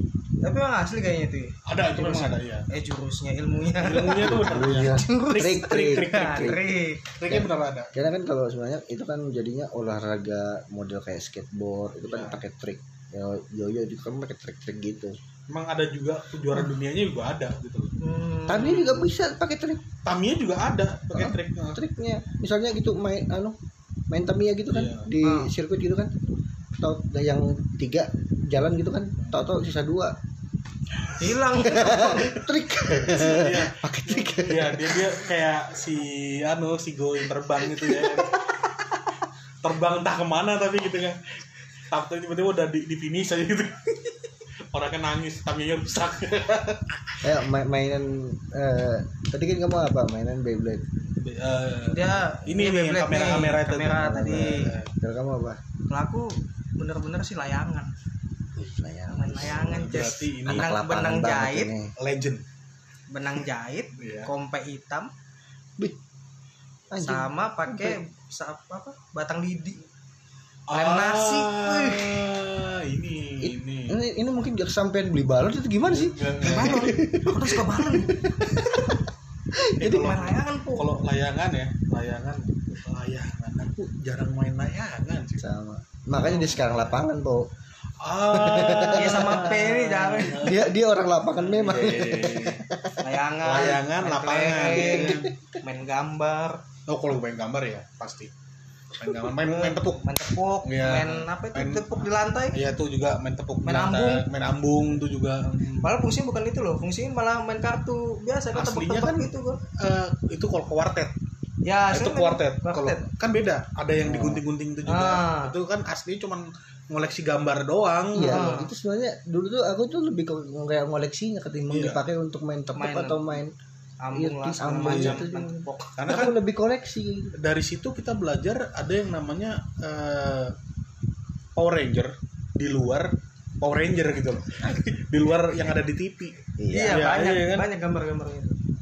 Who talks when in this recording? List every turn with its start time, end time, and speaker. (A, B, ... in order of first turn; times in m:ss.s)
0:00.4-0:07.1 A
0:01.6-0:02.6 B
0:03.7-0:06.6 B
0:04.2-0:06.6 C
0:07.1-0:07.9 B
0:07.3-0:15.2 C
0:12.0-0:12.4 B
0:15.5-0:17.9 B
0:18.0-0:19.1 A
0:18.5-0:19.8 C
0:20.0-0:21.8 B
0:21.1-0:23.6 C
0:24.1-0:26.1 C
0:24.7-0:25.1 B
0:25.2-0:25.5 A
0:26.8-0:30.2 C
0:31.2-0:32.3 A
0:31.6-0:35.2 C
0:32.0-0:32.4 B
0:32.9-0:38.4 B
0:37.8-0:38.2 C
0:39.6-0:41.4 B
0:41.9-0:44.2 B
0:44.7-0:47.3 B
0:47.2-0:50.8 C
0:51.2-0:54.9 B
0:51.8-0:54.7 A
0:54.0-0:55.6 C
0:55.9-0:57.9 A
0:58.6-0:59.8 C
0:59.1-1:01.7 A
0:59.4-1:00.7 B
1:00.4-1:01.9 C
1:02.0-1:02.4 B
1:03.1-1:05.1 A
1:04.0-1:04.3 B
1:06.9-1:08.0 C
1:07.0-1:09.8 A
1:10.7-1:14.0 B
1:10.7-1:12.2 A
1:13.4-1:19.0 C
1:15.9-1:17.0 B
1:16.4-1:19.0 A
1:19.5-1:20.1 C
1:19.8-1:25.4 B
1:19.8-1:20.9 A
1:25.4-1:27.5 C
1:26.2-1:26.6 A
1:26.3-1:26.6 B
1:28.0-1:30.6 B
1:28.3-1:29.5 C
1:28.9-1:30.5 A
1:30.4-1:33.0 C
1:31.4-1:32.6 B
1:33.0-1:36.6 A
1:33.4-1:35.3 B
1:34.7-1:35.3 C
1:36.9-1:38.3 B
1:38.9-1:40.1 B
1:39.2-1:42.6 A
1:40.6-1:45.9 B
1:43.6-1:44.2 A
1:45.8-1:49.6 A
1:48.5-1:51.1 B
1:51.6-1:53.1 A
1:51.9-1:58.5 B
1:54.0-1:54.4 C
1:54.8-1:55.6 A
1:58.1-2:03.5 C
1:58.2-1:58.7 A
2:01.7-2:02.0 B
2:02.7-2:03.4 A
2:04.0-2:06.0 A
2:04.1-2:07.3 C
2:04.7-2:05.3 B
2:06.0-2:06.4 B
2:07.4-2:10.5 B
2:11.6-2:17.7 B
2:16.6-2:17.1 C
2:16.7-2:18.6 A